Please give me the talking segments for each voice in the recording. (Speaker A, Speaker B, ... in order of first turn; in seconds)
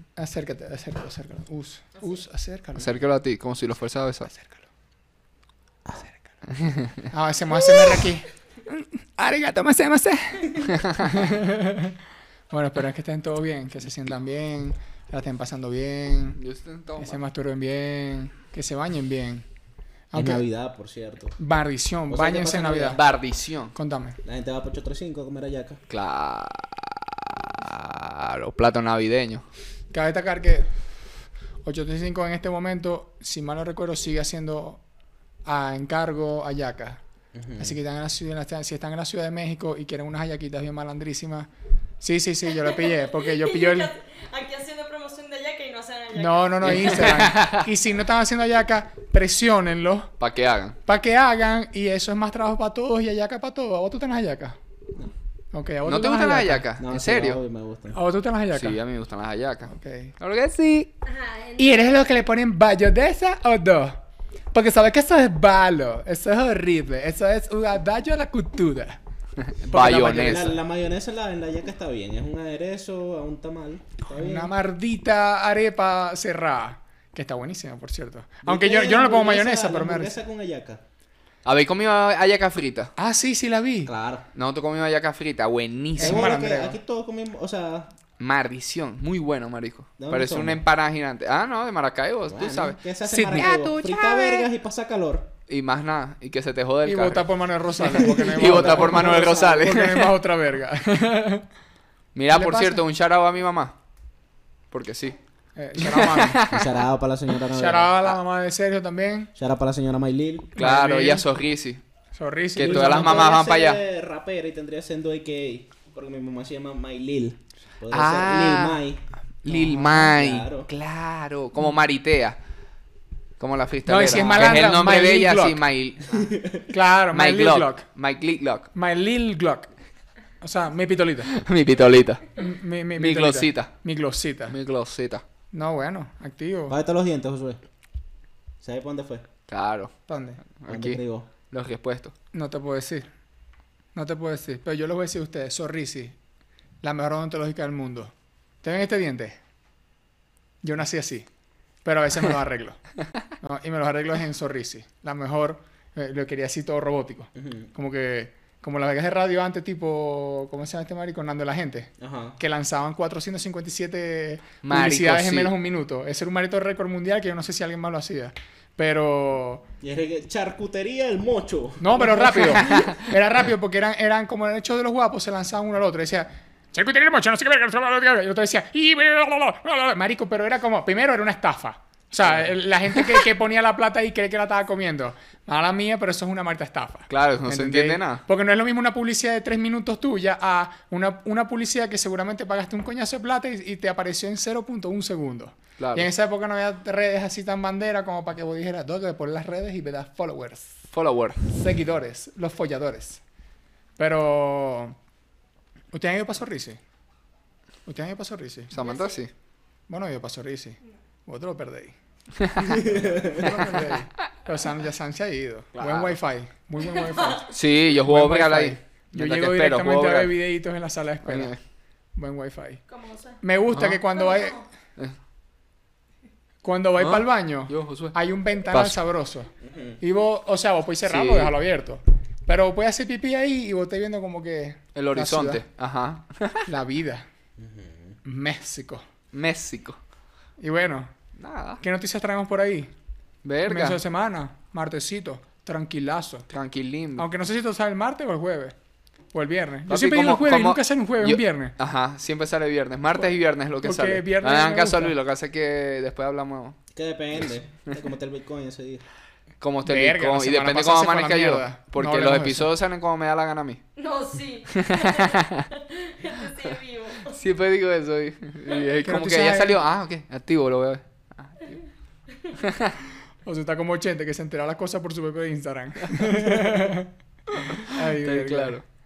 Speaker A: 0.2-3.0, 4.3-4.6, 7.0-12.0, 12.5-16.4, 17.0-19.4, 20.1-20.4, 21.4-23.0, 23.7-24.2, 29.9-30.7, 31.6-34.8, 35.5-37.0, 37.6-41.5, 42.0-43.9, 46.2-50.1, 50.9-54.6, 55.5-56.7, 57.9-58.8, 59.7-60.1, 61.6-64.0, 64.5-69.0, 69.7-70.3, 74.1-80.2, 83.0-83.9, 86.0-86.8, 93.1-93.5, 96.8-101.5, 102.3-102.8, 105.6-106.4, 107.5-109.3, 110.6-111.2, 112.2-113.2, 119.5-120.1, 123.9-125.6, 126.7-127.8, 128.7-129.7, 130.4-131.3, 132.4-134.6, 135.5-136.8, 140.1-140.4, 142.3-143.1, 143.9-146.2, 146.8-148.1, 148.6-149.4, 150.6-151.3, 151.8-152.8, 153.4-169.7, 171.8-200.8, 201.5-203.2, 204.0-205.0, 205.9-206.8, 207.9-208.8, 209.9-211.9, 212.7-221.6, 222.2-222.8, 223.4-224.6, 226.6-229.5, 230.0-235.6, 236.7-237.3, 238.2-239.0, 240.6-241.1, 241.8-242.9, 243.7-246.5, 247.2-248.7, 249.3-251.8, 253.1-255.2, 259.9-262.7, 269.0-269.8, 273.4-278.8
Speaker B: 2.8-4.3, 6.6-6.9, 10.6-11.2, 16.4-17.2, 22.9-23.7, 25.9-29.4, 46.6-47.7, 50.2-50.8, 55.9-57.4, 58.5-60.9, 69.7-70.6, 81.5-82.9, 84.3-86.2, 88.2-94.5, 95.5-97.3, 97.8-100.2, 102.2-103.8, 104.7-105.2, 105.8-106.8, 110.6-111.8, 112.6-113.8, 117.9-118.8, 119.5-122.4, 123.4-126.3, 127.1-128.7, 131.3-132.3, 133.0-133.7, 134.5-135.2, 139.5-139.9, 140.6-141.0, 141.5-142.1, 164.6-165.5, 172.3-173.0, 187.1-188.2, 195.8-196.1, 200.9-201.4, 208.7-209.3, 212.4-212.8, 213.4-214.0, 215.8-216.2, 217.5-220.3, 221.3-221.6, 223.7-224.0, 227.0-228.2, 228.7-229.0, 231.1-231.5, 234.9-236.7, 239.3-240.0, 241.4-241.8, 243.4-244.0, 246.5-247.3, 249.9-256.8, 259.6-263.8, 264.8-265.6, 267.3-271.8, 272.6-273.0, 276.4-276.6, 277.7-278.8
Speaker C: 20.1-21.4, 22.1-23.0, 24.2-25.8, 37.4-37.8, 56.8-58.0, 69.6-74.5, 78.5-80.8, 83.8-84.3, 86.0-87.9, 90.0-90.6, 92.3-95.3, 97.8-99.7, 106.5-107.9, 109.4-110.5, 112.6-119.0, 120.1-120.7, 124.1-124.7, 126.1-126.7, 136.7-137.6, 138.6-139.3, 140.7-141.3, 157.3-157.7, 162.0-162.4, 169.8-172.6, 212.6-213.6, 229.6-230.0, 237.6-238.2, 256.9-259.0
Speaker D: 42.5-47.3, 61.0-61.8, 208.8-209.2, 216.8-217.4, 222.9-223.4, 224.1-224.7, 264.0-267.4